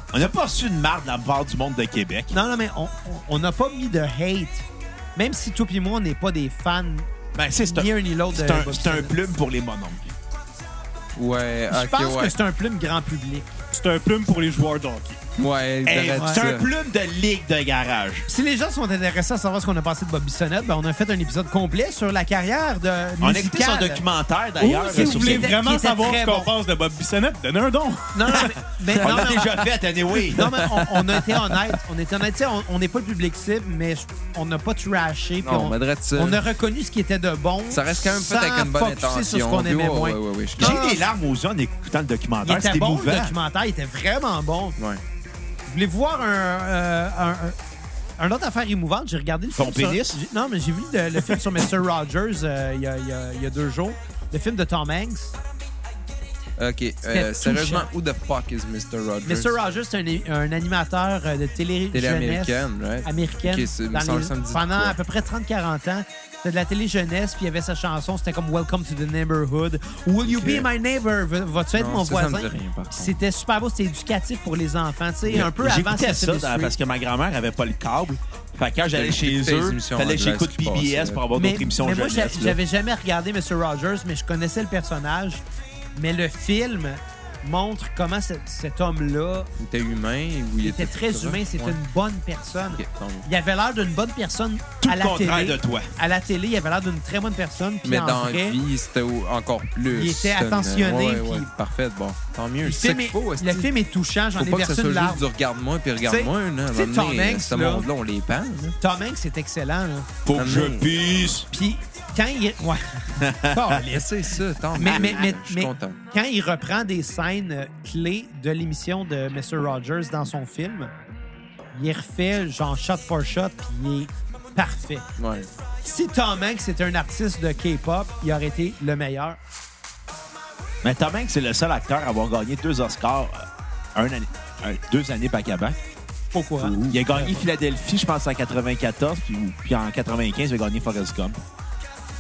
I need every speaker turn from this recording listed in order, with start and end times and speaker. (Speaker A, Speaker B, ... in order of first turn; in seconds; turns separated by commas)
Speaker A: 0.1-2.4, Speaker B: 2.3-4.6, Speaker B: 5.2-7.1, Speaker A: 7.3-10.1, Speaker B: 7.7-9.1, Speaker C: 11.2-12.3, Speaker B: 11.7-13.5, Speaker D: 13.7-15.2, Speaker C: 15.4-16.6, Speaker A: 15.8-18.3, Speaker B: 16.1-16.4, Speaker B: 18.3-24.0, Speaker A: 23.2-25.6, Speaker D: 24.6-28.6, Speaker B: 24.6-26.5, Speaker B: 28.1-29.6, Speaker A: 28.9-30.6, Speaker B: 30.3-41.0, Speaker C: 30.7-31.6, Speaker C: 35.4-36.4, Speaker C: 37.7-40.8, Speaker A: 40.6-43.4, Speaker B: 42.4-44.8, Speaker B: 45.7-47.6, Speaker B: 48.2-55.4, Speaker A: 49.6-50.2, Speaker C: 56.6-59.5, Speaker B: 57.1-57.9, Speaker B: 59.2-76.7, Speaker C: 61.9-65.0, Speaker C: 70.2-70.7, Speaker C: 71.8-73.2, Speaker A: 75.2-82.6, Speaker C: 78.9-81.2, Speaker B: 81.3-85.4, Speaker B: 86.0-89.5, Speaker C: 89.6-91.8, Speaker B: 90.6-98.6, Speaker C: 92.7-93.2, Speaker A: 94.8-95.9, Speaker C: 97.8-103.7, Speaker B: 99.9-101.5, Speaker B: 102.6-105.2, Speaker C: 104.3-108.8, Speaker B: 106.0-107.8, Speaker B: 108.8-110.1, Speaker A: 110.2-111.5, Speaker C: 110.3-111.3, Speaker B: 111.5-114.1, Speaker A: 113.2-113.8, Speaker C: 113.8-116.0, Speaker B: 114.8-120.9, Speaker A: 114.9-115.2, Speaker B: 121.7-125.0, Speaker C: 125.2-125.5, Speaker B: 125.8-129.4, Speaker A: 130.8-135.8, Speaker B: 136.3-137.4, Speaker A: 136.8-141.4